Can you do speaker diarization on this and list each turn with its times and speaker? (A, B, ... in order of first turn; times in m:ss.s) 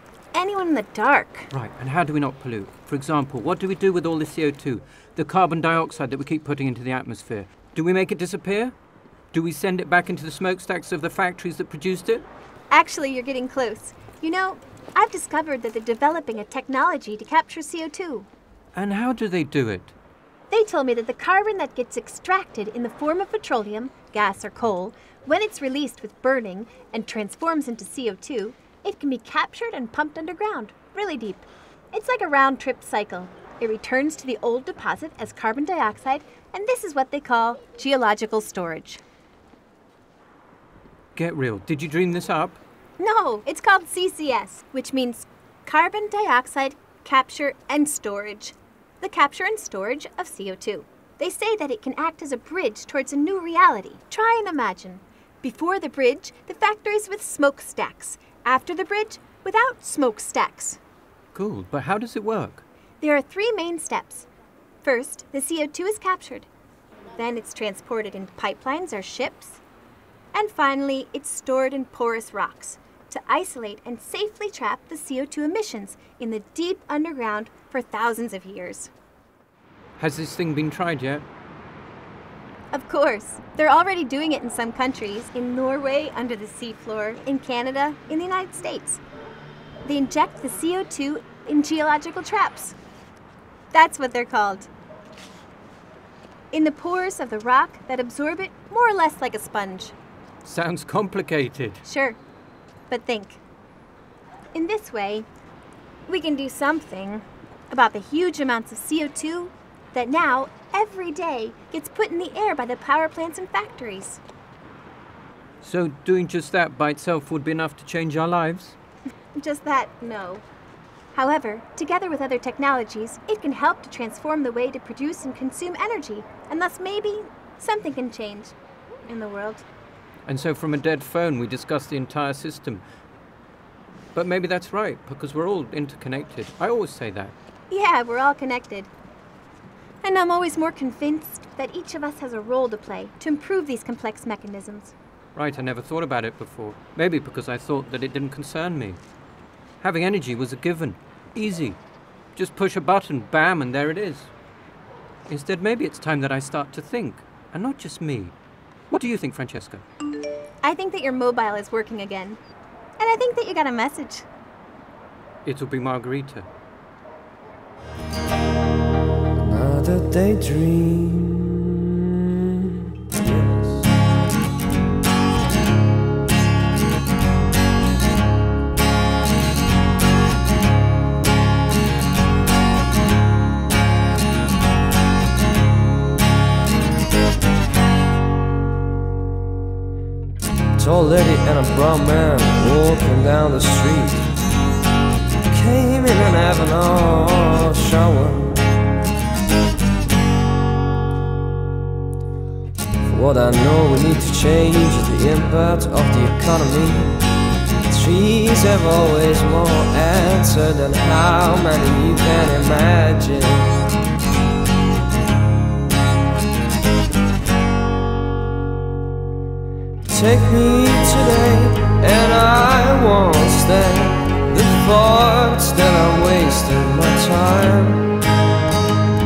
0:00.3-0:01.5 A
0:01.5-0:08.7 B
0:09.3-0:12.2 B
0:12.7-0:18.3 A
0:18.7-0:19.9 B
0:20.5-0:39.0 A
0:41.2-0:42.6 B
0:43.0-1:00.8 A
1:01.3-1:02.6 B
1:03.0-1:04.3 A
1:04.8-1:06.5 A
1:07.1-1:09.6 A
1:10.3-1:18.9 A
1:20.0-1:21.2 B
1:22.7-1:29.0 A
1:29.8-1:32.8 A
1:33.7-1:34.7 A
1:36.5-1:39.9 A
1:40.4-1:41.8 B
1:41.8-1:42.2 A
1:42.9-1:43.4 A
1:44.5-1:45.3 A
1:46.1-1:54.2 A
1:55.6-1:58.8 B
1:59.3-2:00.4 A
2:01.1-2:08.5 A
2:09.1-2:09.6 A
2:10.2-2:12.8 B
2:14.1-2:17.3 B
2:17.7-2:18.9 A
2:20.0-2:24.9 A
2:25.3-2:29.0 B
2:29.8-2:31.8 B
2:32.3-2:34.3 B
2:35.3-2:38.3 B
2:38.9-2:39.8 B
2:40.6-2:42.4 A
2:43.0-2:44.3 A
2:45.4-2:46.5 B
2:49.3-2:53.8 C
3:10.8-3:14.3 C
3:15.5-3:18.7 C
3:23.0-3:27.2 C
3:27.8-3:33.8 C
3:40.1-3:48.1 C